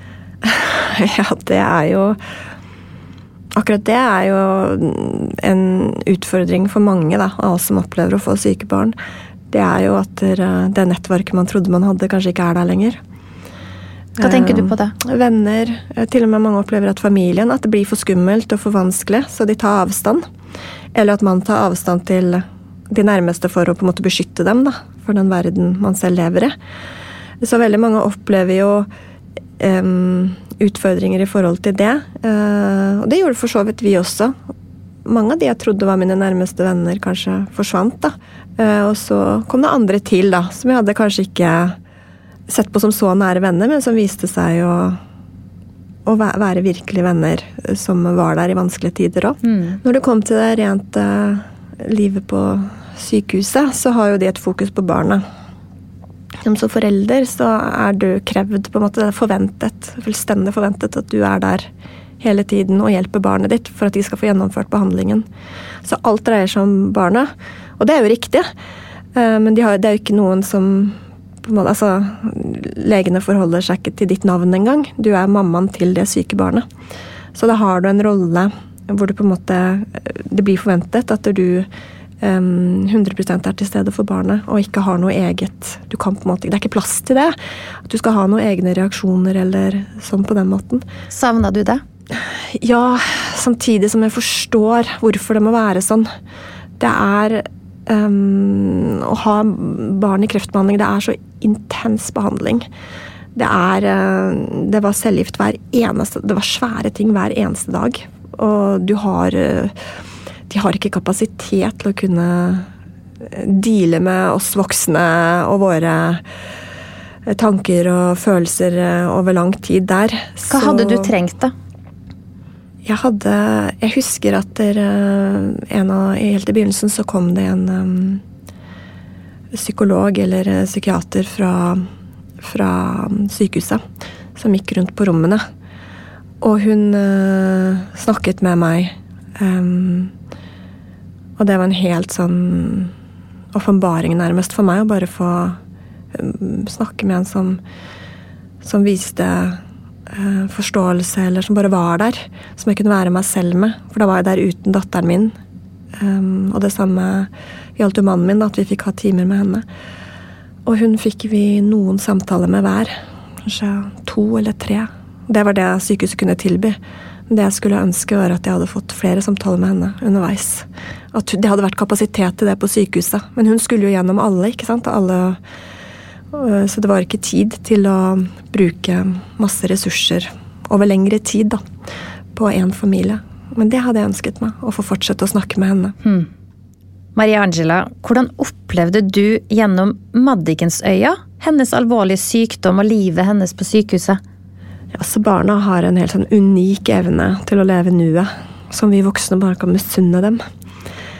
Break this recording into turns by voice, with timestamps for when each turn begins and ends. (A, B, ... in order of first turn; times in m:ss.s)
0:00.4-0:02.2 A
0:03.6-0:09.0 A
0:09.5-0:13.0 A
0:14.2-0:20.2 A
0:14.2-0:15.0 B
0:21.0-0:26.6 A
0:27.4-0:28.9 A
0:29.6-0:34.4 A
0:35.0-0:41.8 A
0:42.5-0:45.0 A
0:46.1-0:55.2 A
0:49.4-0:49.8 B
0:56.4-1:01.7 A
1:02.2-1:05.3 A
1:05.8-1:08.5 A
1:09.2-1:16.6 A
1:17.4-1:21.7 A
1:22.2-1:27.4 A
1:27.9-1:30.8 A
1:31.1-1:31.8 B
1:32.2-1:36.1 A
1:36.8-1:42.7 A
1:43.4-1:49.8 A
1:50.5-1:52.7 A
1:53.2-1:56.2 A
1:57.3-2:01.1 A
2:00.5-2:01.5 B
2:02.8-2:08.2 A
2:09.5-2:11.9 A
2:12.4-2:13.8 A
2:14.4-2:15.4 A
2:16.4-2:20.1 A
2:21.4-2:22.9 A
2:23.5-2:25.6 A
2:26.1-2:27.6 A
2:28.6-2:35.4 A
2:36.0-2:39.7 A
2:40.7-2:46.8 A
2:47.3-2:55.4 A
2:56.3-3:01.6 A
3:02.4-3:06.0 A
3:06.0-3:06.3 B
3:07.2-3:14.2 B
3:14.9-3:20.4 A